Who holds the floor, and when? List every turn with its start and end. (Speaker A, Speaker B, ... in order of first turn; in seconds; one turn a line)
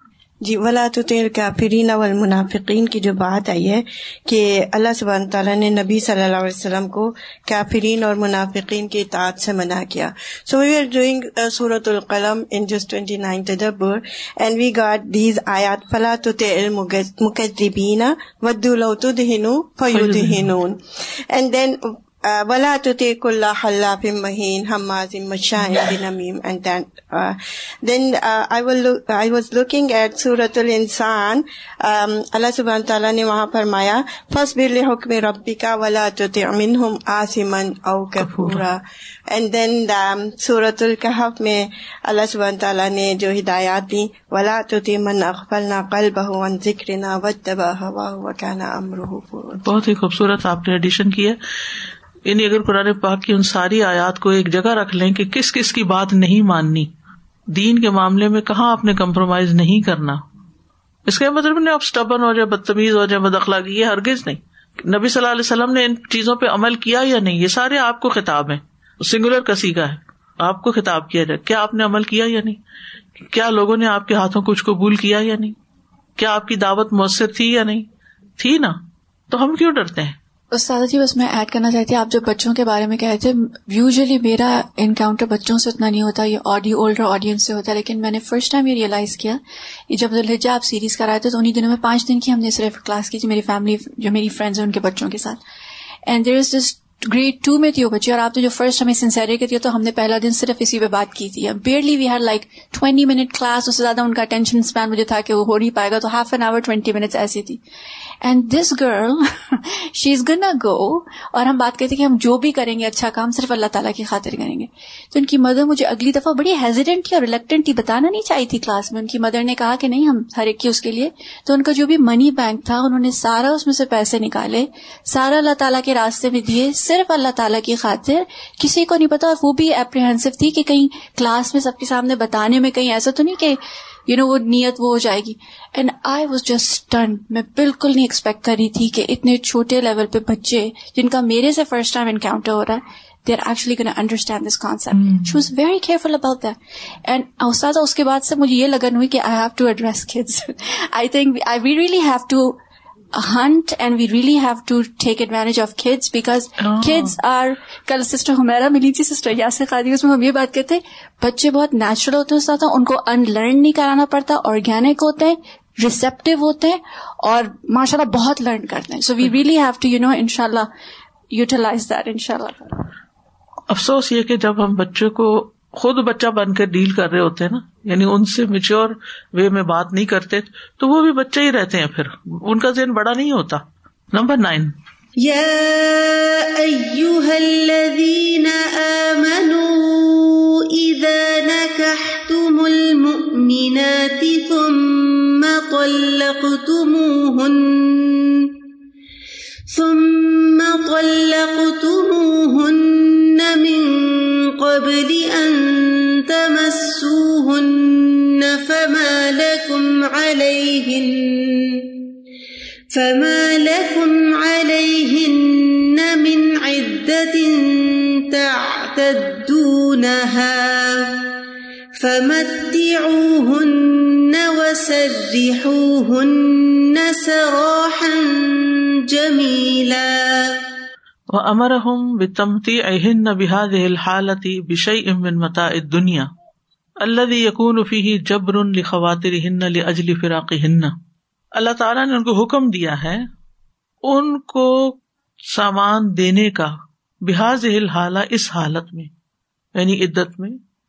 Speaker A: 0.4-49.6
Speaker B: 19.9-20.5
Speaker B: 38.2-38.6
Speaker B: 49.6-51.4
Speaker B: 52.2-56.9
Speaker B: 57.5-60.2
Speaker B: 61.1-72.6
Speaker B: 73.3-75.5
Speaker B: 76.2-77.9
Speaker B: 78.4-80.2
Speaker C: 80.5-95.4
Speaker C: 96.1-107.6
Speaker C: 108.2-152.6
Speaker B: 145.0-145.4
Speaker C: 153.1-170.7
Speaker B: 156.6-157.2
Speaker C: 171.3-172.9
Speaker B: 173.7-184.7
Speaker D: 185.2-198.5
Speaker D: 199.7-211.9
Speaker D: 212.9-221.2
Speaker D: 222.0-230.6
Speaker B: 231.3-236.3
Speaker B: 237.0-240.9
Speaker B: 241.6-243.2
Speaker B: 244.0-244.9
Speaker B: 245.5-249.1
Speaker B: 249.8-250.6